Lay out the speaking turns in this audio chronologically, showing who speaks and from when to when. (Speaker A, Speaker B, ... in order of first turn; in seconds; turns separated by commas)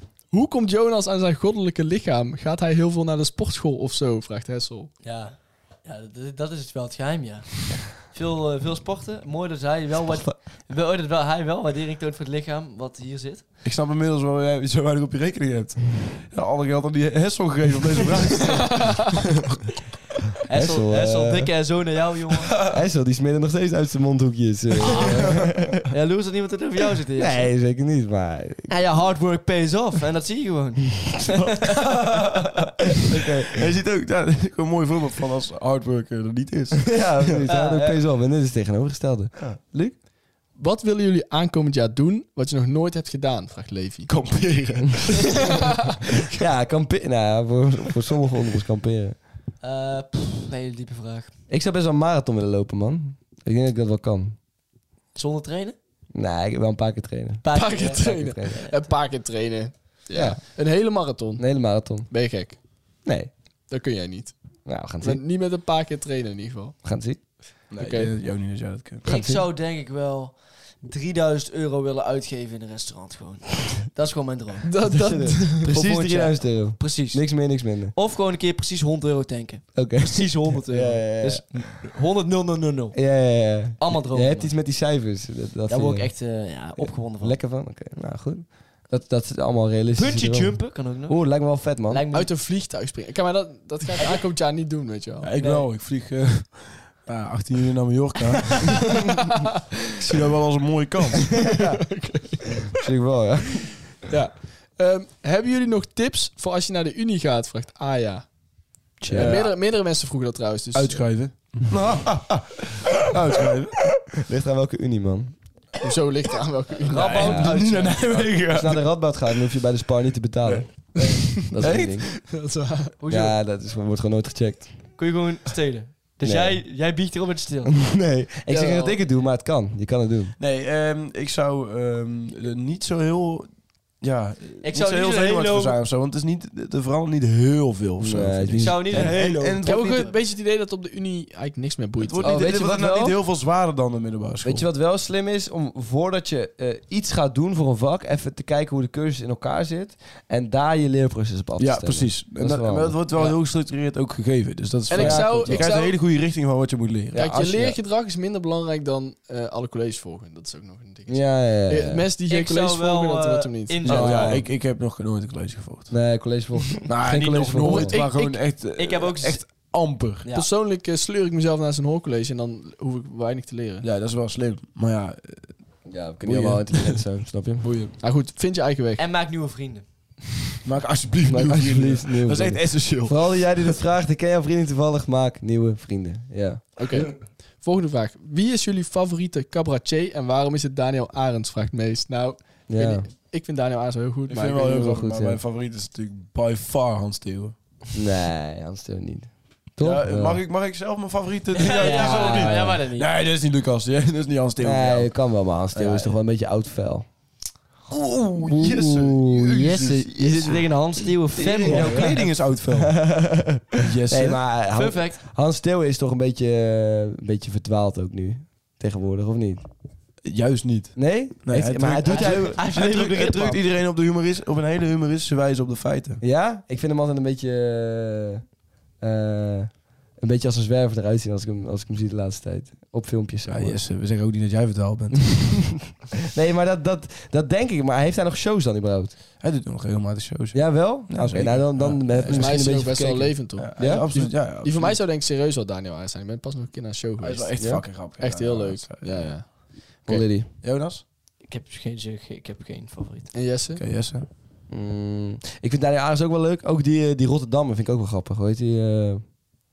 Speaker A: 0.3-4.9, Speaker B: 5.0-13.4, Speaker C: 10.1-10.3, Speaker D: 13.6-19.0, Speaker B: 20.4-22.5, Speaker C: 20.5-21.5, Speaker C: 22.7-25.8, Speaker B: 24.9-27.5, Speaker D: 25.0-25.4, Speaker C: 27.2-28.7, Speaker B: 28.7-31.9, Speaker D: 31.8-32.6, Speaker C: 33.1-33.5, Speaker D: 33.1-37.5, Speaker C: 36.9-40.0, Speaker B: 37.5-38.0, Speaker A: 40.5-44.3, Speaker D: 44.1-45.4, Speaker A: 45.4-45.7, Speaker C: 46.4-49.2, Speaker B: 49.6-51.3, Speaker C: 51.5-54.4, Speaker B: 55.1-55.8, Speaker C: 56.1-58.6, Speaker B: 57.4-58.9, Speaker A: 57.5-62.6, Speaker C: 60.1-60.4, Speaker C: 61.4-62.1, Speaker C: 63.0-63.3, Speaker A: 63.7-66.8, Speaker C: 64.7-65.2, Speaker C: 66.8-67.4, Speaker D: 67.7-69.0, Speaker A: 67.8-68.1, Speaker C: 69.0-69.5, Speaker B: 69.0-74.7, Speaker A: 74.7-75.7, Speaker C: 74.8-77.9, Speaker B: 75.7-84.5, Speaker C: 79.7-81.7, Speaker C: 82.9-92.0, Speaker B: 85.7-87.4, Speaker B: 89.9-92.3, Speaker A: 92.1-95.3, Speaker D: 95.2-98.8, Speaker B: 95.4-95.7, Speaker D: 100.0-101.3, Speaker A: 101.2-102.5, Speaker C: 101.5-101.8, Speaker C: 102.7-103.9, Speaker A: 104.1-108.4, Speaker A: 109.0-111.1, Speaker C: 109.0-109.5, Speaker D: 109.0-109.6, Speaker D: 110.7-114.0, Speaker C: 114.2-115.4, Speaker A: 115.8-117.3, Speaker B: 116.9-118.4, Speaker D: 116.9-119.0, Speaker C: 117.2-117.5, Speaker C: 118.5-122.1, Speaker D: 120.4-122.0, Speaker A: 122.2-122.9, Speaker B: 123.0-123.4, Speaker C: 123.1-125.0, Speaker B: 125.0-127.9, Speaker C: 126.2-126.7, Speaker C: 127.7-130.4, Speaker A: 128.5-129.0, Speaker D: 130.4-140.1, Speaker B: 134.6-135.8, Speaker C: 138.0-139.2, Speaker B: 138.6-140.2, Speaker A: 139.6-142.5, Speaker D: 142.0-144.7, Speaker C: 142.2-143.2, Speaker C: 144.4-153.0, Speaker D: 151.6-157.2, Speaker A: 154.9-156.0, Speaker C: 154.9-155.7, Speaker C: 157.1-157.8, Speaker A: 157.2-163.9, Speaker C: 161.1-162.1, Speaker B: 162.3-164.3, Speaker D: 163.8-166.1, Speaker C: 163.9-164.5, Speaker C: 165.9-168.0, Speaker D: 166.8-170.3, Speaker B: 167.7-169.7, Speaker B: 170.2-170.5, Speaker A: 170.3-173.8, Speaker D: 173.8-177.9, Speaker C: 175.8-177.7, Speaker A: 178.0-179.0, Speaker B: 179.0-179.8, Speaker D: 180.6-183.8, Speaker C: 181.2-186.8, Speaker A: 186.8-194.8, Speaker C: 192.7-193.1, Speaker D: 194.3-197.5, Speaker C: 194.6-195.4, Speaker C: 197.9-200.4, Speaker D: 199.8-206.1, Speaker B: 201.5-203.1, Speaker C: 201.7-202.8, Speaker C: 204.6-207.1, Speaker D: 207.9-210.7, Speaker C: 208.4-209.4, Speaker B: 209.4-212.2, Speaker D: 211.3-213.2, Speaker C: 211.6-219.7, Speaker D: 213.8-214.4, Speaker B: 214.7-215.2, Speaker D: 220.2-226.2, Speaker C: 220.9-222.6, Speaker B: 222.0-223.6, Speaker C: 226.2-228.4, Speaker C: 229.0-233.8, Speaker D: 233.5-235.9, Speaker C: 235.3-239.2, Speaker D: 239.4-243.0, Speaker C: 240.5-244.1, Speaker A: 242.2-249.7, Speaker D: 243.5-245.0, Speaker D: 247.2-251.0, Speaker C: 247.6-247.9, Speaker C: 250.1-250.5, Speaker B: 251.4-253.3, Speaker A: 253.3-253.8, Speaker D: 253.8-254.3, Speaker C: 254.7-259.5